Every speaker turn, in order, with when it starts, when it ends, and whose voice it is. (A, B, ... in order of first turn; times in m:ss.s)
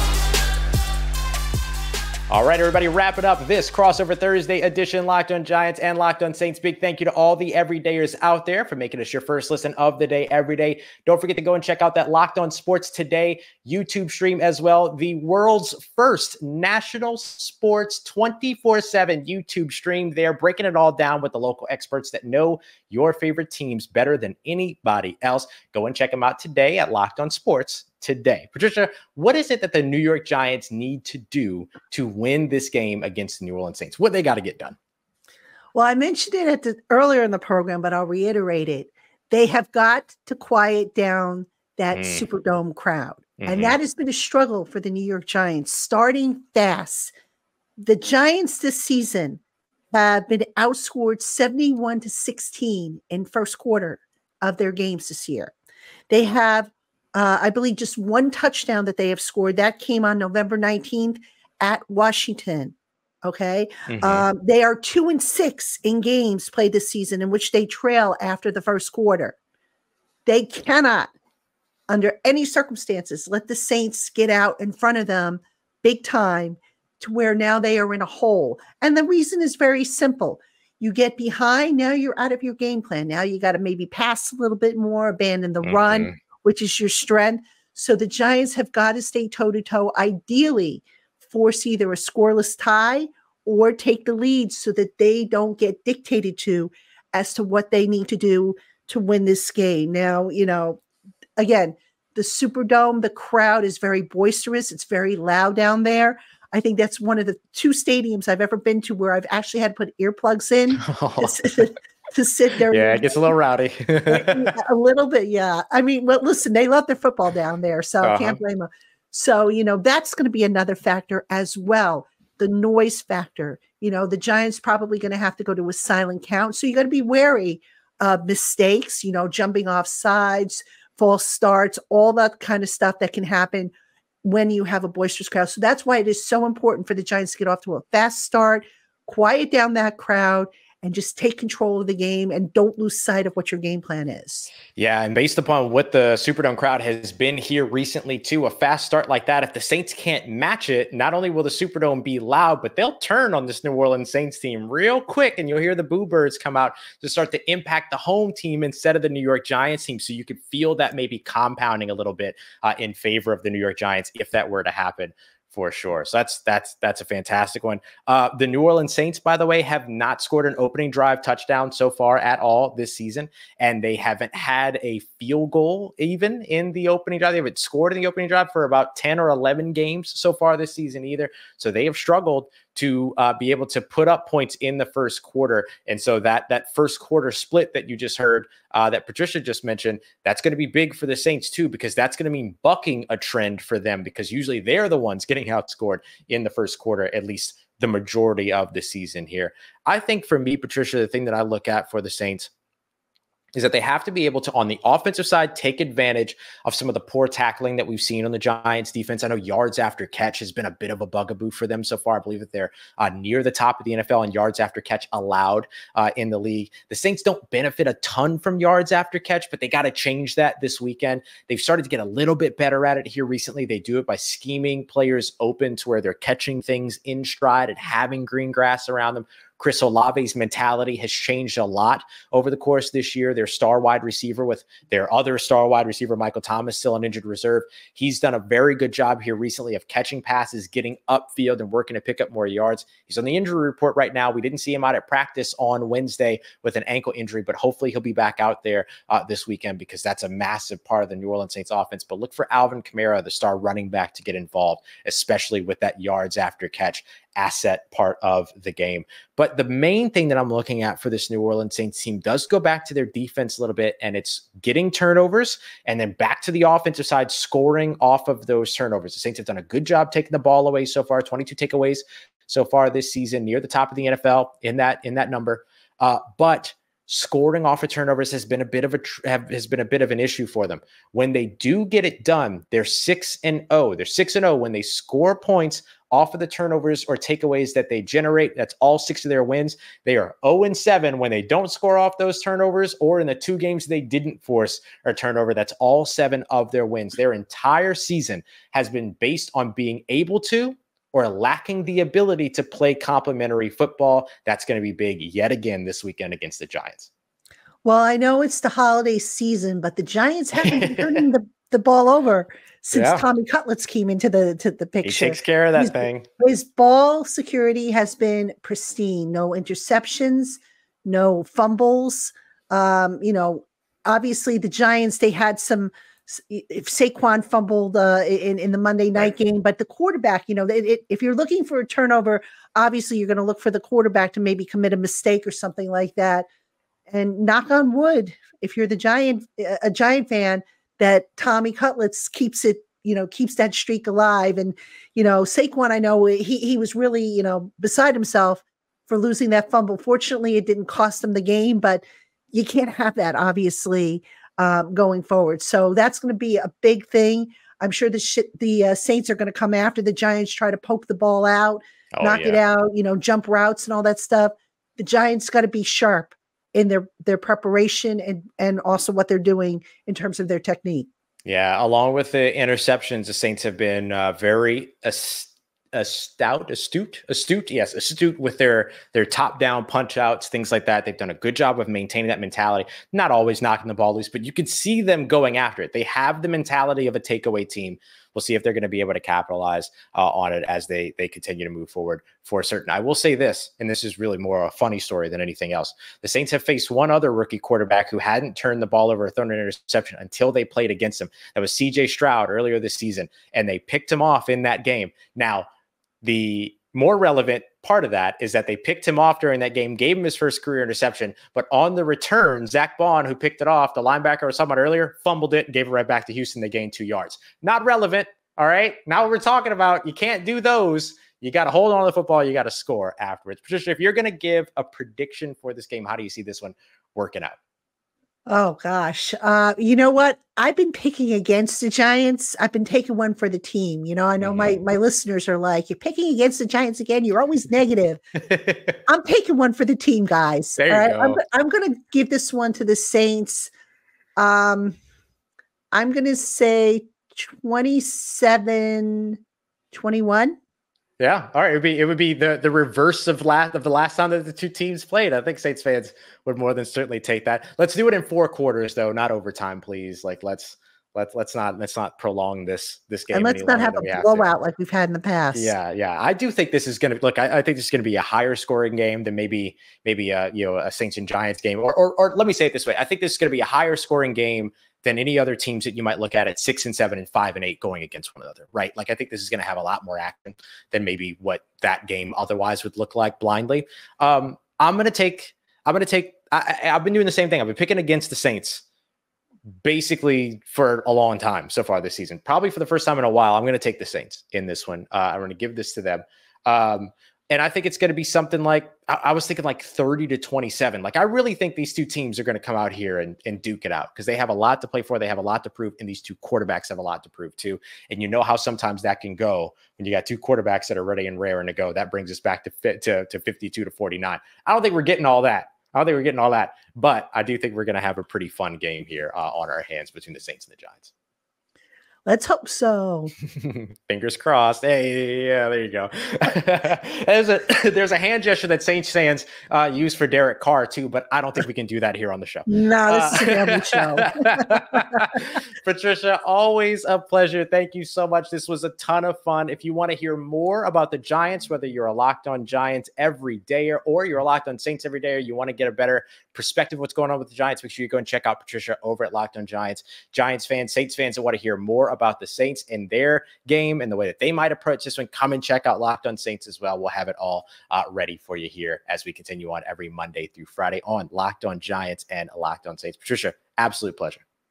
0:02.3-0:34.8 A
0:35.7-0:47.1 B
0:41.9-0:42.2 A
0:43.4-0:43.8 A
0:47.8-0:49.4 B
0:49.9-0:55.5 B
0:56.1-1:09.4 B
1:03.9-1:04.2 A
1:10.2-1:11.1 B
1:11.9-1:40.8 B
1:25.6-1:26.2 A
1:41.4-1:53.3 B
1:50.8-1:51.6 A
1:52.7-1:54.6 A
1:54.1-2:13.7 B
1:58.0-1:58.4 A
2:14.2-2:24.5 B
2:24.7-3:22.5 A
3:23.5-5:07.1 A
5:07.8-5:36.5 B
5:10.6-5:11.2 A
5:12.9-5:13.2 A
5:15.0-5:16.3 A
5:37.1-6:11.1 B
6:02.1-6:02.6 A
6:11.4-6:45.7 A
6:46.2-7:07.6 A
7:08.5-7:18.2 B
7:14.4-7:14.8 A
7:18.4-7:19.0 A
7:19.0-7:23.7 B
7:20.8-7:21.4 A
7:24.4-7:25.0 B
7:25.9-7:29.4 B
7:29.9-7:30.6 B
7:31.2-7:44.5 A
7:43.3-7:45.7 B
7:45.5-8:08.8 A
8:09.8-8:41.1 A
8:42.2-8:43.3 B
8:43.5-9:24.4 A
8:52.7-8:55.2 B